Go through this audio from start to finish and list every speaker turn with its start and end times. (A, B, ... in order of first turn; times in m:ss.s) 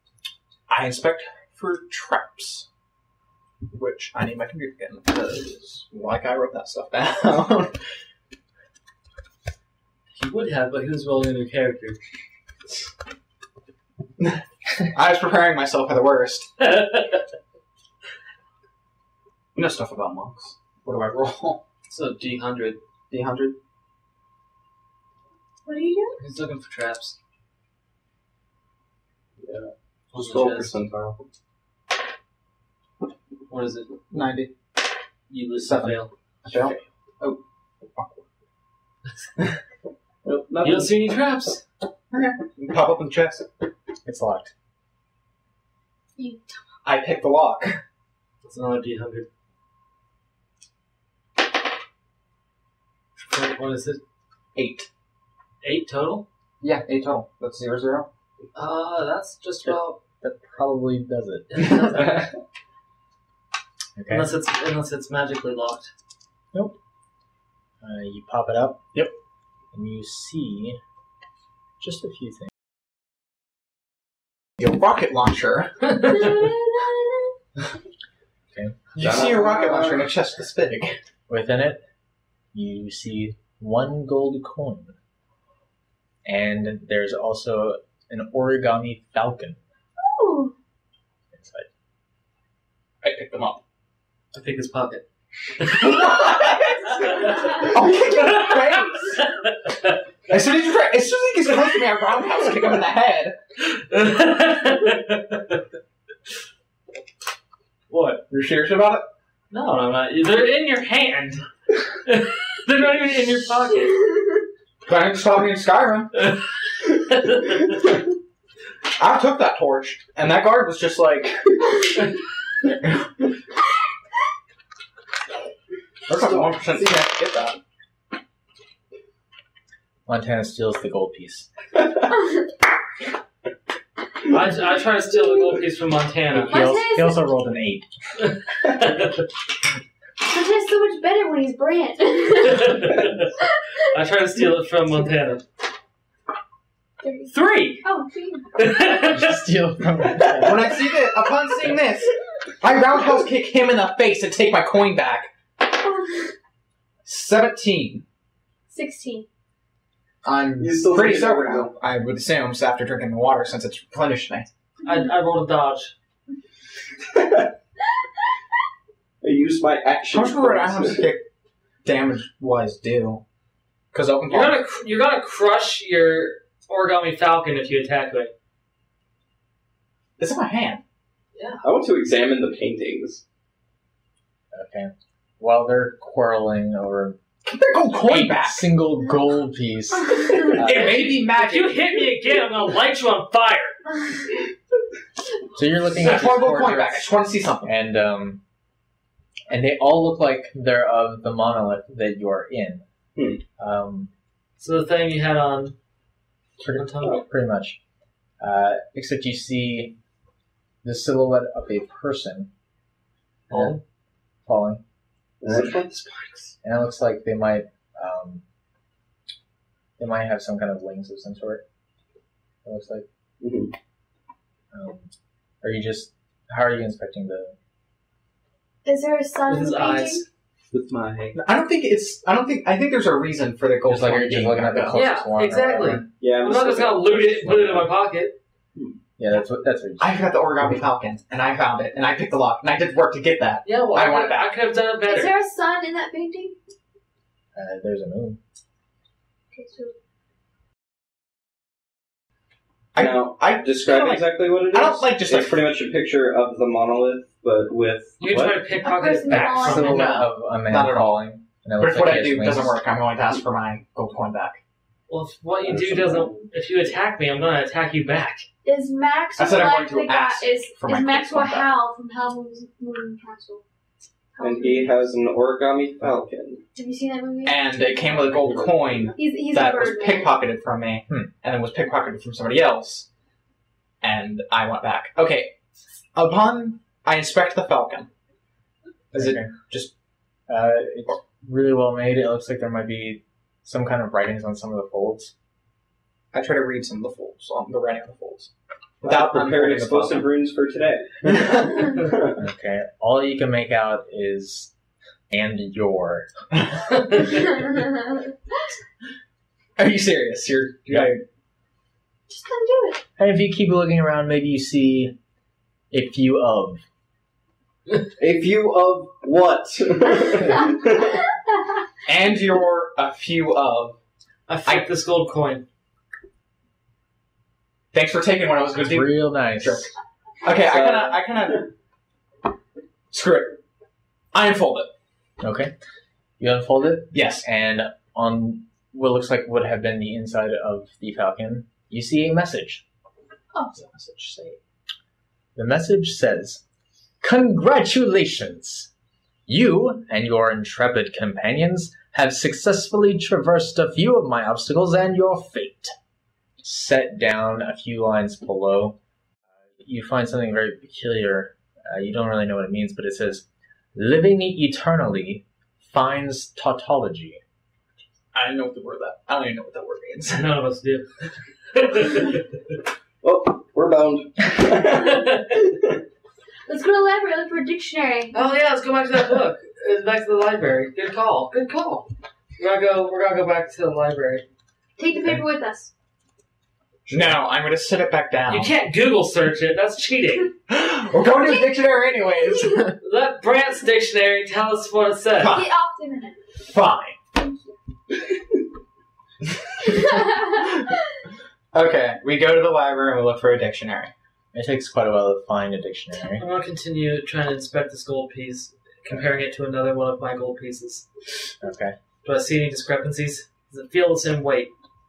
0:00.7-0:02.7 A
0:03.7-0:07.8 A
0:10.1-0:12.0 B
0:14.9-0:16.5 A
0:16.6-0:17.2 B
0:19.5-0:21.6 A
0:21.9-0:22.8 B
0:23.1-0:23.5 A
0:25.6-0:26.2 C
0:26.2-0:27.2 B
0:29.4-0:31.2 D
0:30.1-0:30.8 B
0:33.5-0:34.0 B
0:34.1-0:34.5 A
0:35.3-0:36.1 B
0:35.5-0:38.2 A
0:40.2-0:41.0 D
0:40.6-0:41.6 B
0:42.1-0:43.5 A
0:44.0-0:44.5 A
0:46.2-0:46.5 C
0:46.8-0:47.8 A
0:48.4-0:49.3 B
0:53.2-0:54.0 B
0:54.5-0:54.9 A
0:55.6-0:56.2 B
0:56.6-0:58.1 A
0:58.5-1:00.0 B
0:59.6-1:02.2 E
1:01.5-1:02.3 B
1:04.0-1:04.3 E
1:04.1-1:05.9 B
1:07.8-1:09.0 E
1:09.7-1:10.8 E
1:11.8-1:12.5 E
1:14.6-1:15.7 A
1:15.9-1:16.3 B
1:16.0-1:17.3 C
1:18.9-1:21.0 A
1:19.0-1:20.1 D
1:21.3-1:21.8 E
1:22.5-1:24.9 E
1:26.2-1:29.6 E
1:30.0-1:30.5 C
1:31.3-1:31.7 E
1:33.0-1:33.6 A
1:34.3-1:35.0 B
1:35.6-1:40.0 B
1:35.7-1:39.2 A
1:40.3-1:43.4 A
1:43.6-1:45.6 B
1:47.9-1:48.2 B
1:48.3-1:49.1 A
1:49.5-1:51.4 B
1:52.0-1:54.0 B
1:54.8-1:56.1 A
1:56.2-1:57.8 B
1:59.0-2:01.6 A
2:06.1-2:06.9 D
2:06.1-2:07.6 A
2:10.1-2:11.5 E
2:14.3-2:16.7 B
2:16.3-2:17.9 E
2:16.4-2:17.2 C
2:18.2-2:19.3 B
2:20.2-2:23.0 C
2:22.4-2:23.3 B
2:23.9-2:25.4 B
2:27.0-2:28.6 C
2:27.3-2:27.8 B
2:28.5-2:29.4 B
2:29.1-2:30.8 E
2:30.3-2:35.3 A
2:35.6-2:36.3 C
2:37.0-2:38.0 A
2:38.7-2:39.3 C
2:40.2-2:44.5 A
2:40.6-2:41.7 D
2:44.8-2:45.1 C
2:44.8-2:45.9 B
2:47.1-2:47.4 D
2:49.2-2:51.1 D
2:50.1-2:51.2 A
2:51.8-2:53.2 A
2:53.9-2:54.6 A
2:54.3-2:58.3 B
3:00.2-3:00.8 A
3:01.3-3:01.6 B
3:01.6-3:03.2 D
3:04.5-3:07.2 E
3:07.4-3:08.7 A
3:08.0-3:11.1 E
3:10.4-3:12.0 A
3:10.5-3:13.8 B
3:15.5-3:18.4 E
3:15.9-3:17.7 A
3:19.5-3:22.8 E
3:23.2-3:23.4 D
3:23.6-3:24.1 E
3:24.6-3:25.8 B
3:26.6-3:27.8 E
3:26.7-3:27.2 B
3:28.4-3:29.9 E
3:30.8-3:32.5 E
3:33.5-3:33.8 B
3:33.5-3:33.8 E
3:34.4-3:34.8 E
3:35.4-3:36.0 D
3:35.5-3:36.5 B
3:36.6-3:38.4 E
3:40.0-3:41.6 E
3:42.6-3:43.0 E
3:43.4-3:43.7 D
3:44.7-3:47.6 E
3:48.8-3:50.2 C
3:49.5-3:50.2 B
3:50.7-3:51.4 D
3:51.3-3:55.0 A
3:53.9-3:56.0 E
3:54.9-3:58.4 B
3:56.2-3:57.4 D
3:57.2-3:57.8 E
3:59.2-4:00.4 E
4:00.0-4:04.5 A
4:03.6-4:05.3 B
4:05.1-4:06.6 C
4:07.5-4:08.4 E
4:09.5-4:09.9 C
4:12.9-4:15.6 A
4:13.0-4:18.2 D
4:18.2-4:20.2 B
4:18.2-4:18.7 E
4:18.8-4:20.2 C
4:19.3-4:22.8 E
4:19.3-4:21.2 A
4:21.8-4:24.6 A
4:25.1-4:28.5 B
4:25.6-4:26.5 D
4:28.6-4:33.6 C
4:29.4-4:31.7 A
4:34.4-4:35.0 C
4:34.4-4:36.6 D
4:36.7-4:38.3 C
4:37.4-4:43.1 A
4:38.2-4:39.1 D
4:39.1-4:40.4 C
4:44.0-4:45.6 A
4:46.1-4:48.1 A
4:49.1-4:49.9 A
4:49.1-4:49.5 E
4:50.5-4:55.3 E
4:56.3-5:00.3 A
4:59.0-5:02.4 D
5:01.2-5:01.9 A
5:02.4-5:04.7 E
5:05.3-5:06.3 E
5:06.7-5:07.1 A
5:07.3-5:08.0 C
5:09.8-5:11.2 A
5:12.3-5:13.0 C
5:13.2-5:15.1 E
5:15.9-5:16.8 E
5:18.2-5:21.2 D
5:20.4-5:20.7 C
5:22.1-5:24.0 A
5:24.5-5:25.6 B
5:27.9-5:29.9 A
5:28.8-5:29.9 E
5:30.4-5:31.6 A
5:30.6-5:31.5 D
5:33.1-5:33.6 A
5:34.3-5:34.9 A
5:35.4-5:35.7 E
5:36.4-5:42.8 E
5:37.1-5:37.4 A
5:43.7-5:44.6 A
5:45.5-5:46.6 E
5:47.2-5:48.9 E
5:49.5-5:55.9 E
5:56.6-5:59.0 E
5:59.8-6:07.4 E
6:08.3-6:10.5 A
6:10.3-6:11.1 B
6:11.7-6:12.4 B
6:13.2-6:16.0 D
6:16.7-6:18.4 C
6:18.3-6:24.4 B
6:25.0-6:25.9 C
6:27.1-6:28.7 A
6:28.5-6:30.5 B
6:30.7-6:33.0 A
6:31.2-6:32.9 C
6:33.0-6:35.6 B
6:35.4-6:35.7 A
6:35.4-6:36.4 C
6:36.6-6:37.2 A
6:37.4-6:37.7 C
6:39.8-6:40.6 C
6:41.7-6:44.1 A
6:44.5-6:46.4 E
6:46.4-6:51.1 B
6:51.6-6:52.0 E
6:52.2-6:54.7 B